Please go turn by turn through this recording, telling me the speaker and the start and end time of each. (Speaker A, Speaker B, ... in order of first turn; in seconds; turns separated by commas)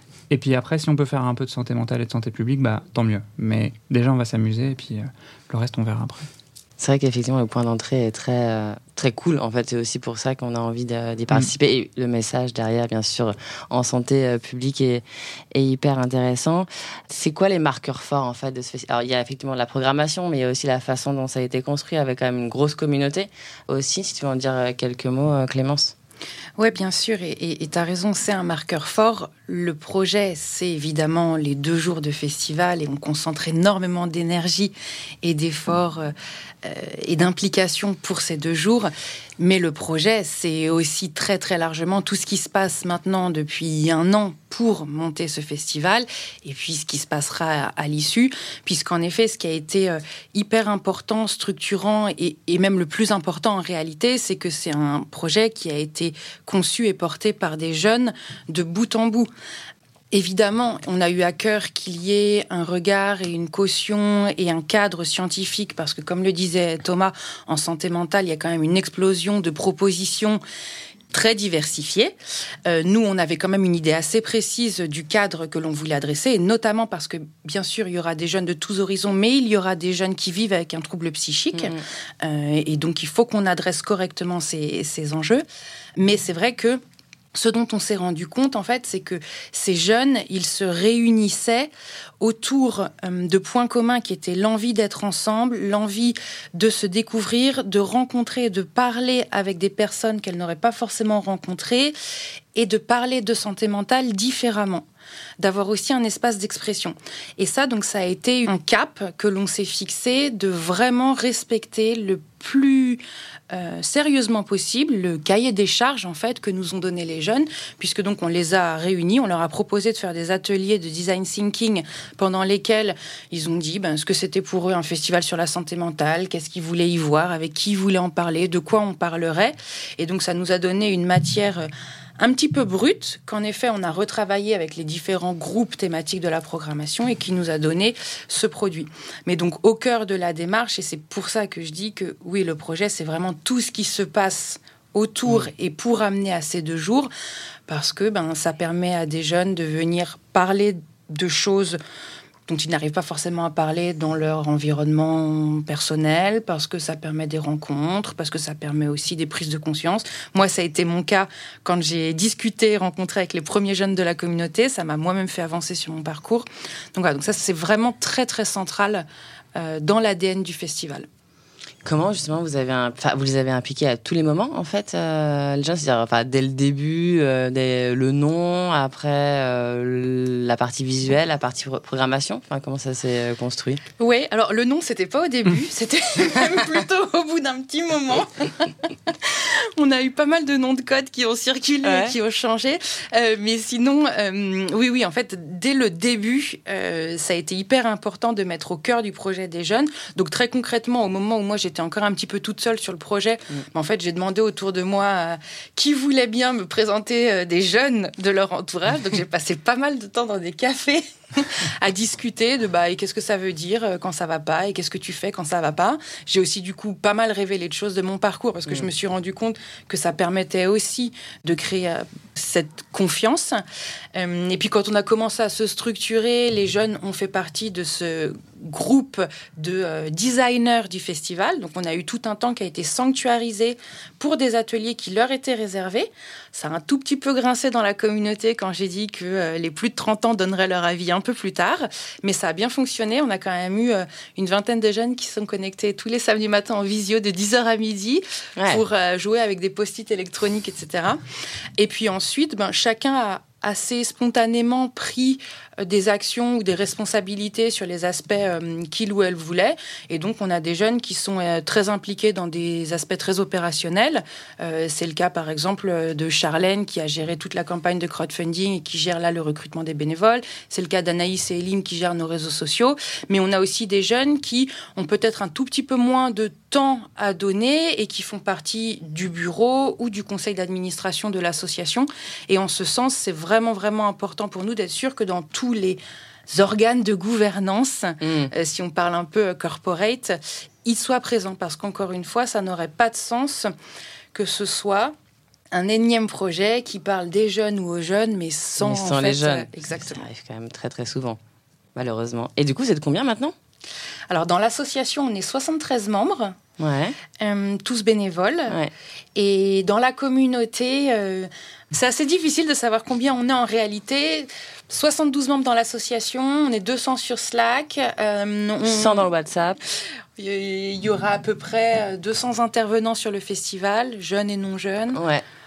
Speaker A: 0.3-6.3, Speaker B: 6.8-25.9, Speaker C: 26.6-59.3, Speaker C: 60.1-70.4, Speaker C: 71.1-85.4, Speaker B: 81.5-81.8, Speaker C: 86.0-86.8, Speaker C: 87.3-101.9, Speaker C: 102.5-104.8, Speaker C: 105.4-147.1, Speaker C: 147.7-151.8, Speaker C: 152.5-171.1, Speaker B: 171.8-183.8, Speaker C: 184.0-223.6, Speaker B: 191.8-192.1, Speaker C: 224.1-251.2, Speaker B: 248.6-248.8, Speaker C: 251.8-293.7, Speaker B: 288.2-288.5, Speaker C: 294.3-295.1, Speaker C: 295.7-300.2, Speaker B: 298.8-301.4, Speaker B: 301.9-303.5, Speaker C: 304.3-306.6, Speaker B: 306.8-307.2, Speaker C: 307.3-308.8, Speaker C: 309.4-319.3, Speaker B: 318.8-319.8, Speaker C: 320.4-325.2, Speaker B: 325.1-325.4